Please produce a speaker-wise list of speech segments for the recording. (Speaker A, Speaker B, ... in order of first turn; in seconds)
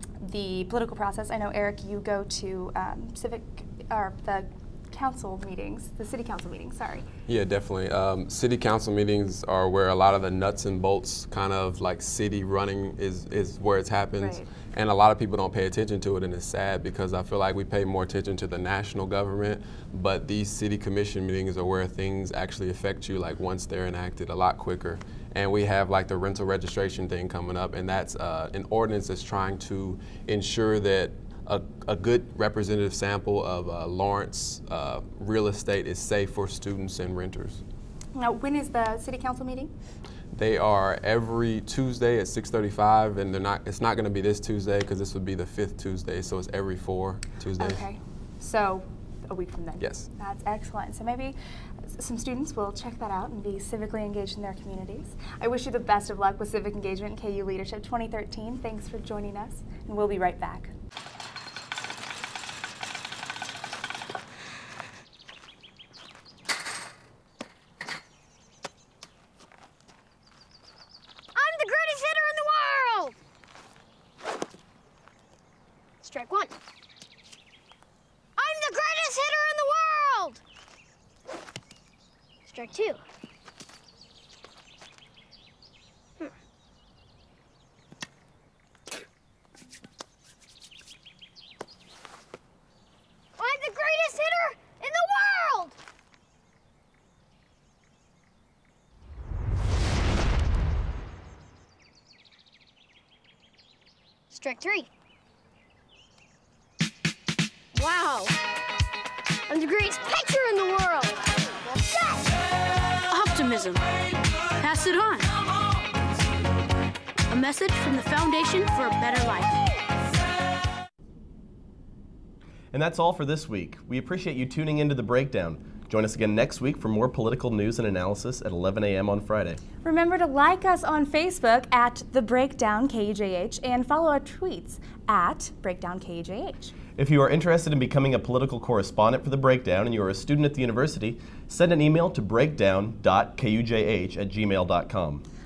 Speaker A: 0.2-7.0, 14.2-14.5, 38.1-39.7, 47.6-51.3, 51.9-60.7, 129.8-136.7
Speaker B: 7.3-37.6, 40.3-47.6
Speaker C: 71.3-73.2, 76.0-76.5, 78.4-80.4, 82.5-83.0, 93.4-95.8, 104.3-104.9, 107.7-108.3, 109.5-112.3
Speaker D: 113.1-113.8, 114.6-115.3, 117.3-119.5
Speaker E: 122.7-129.6, 136.9-145.2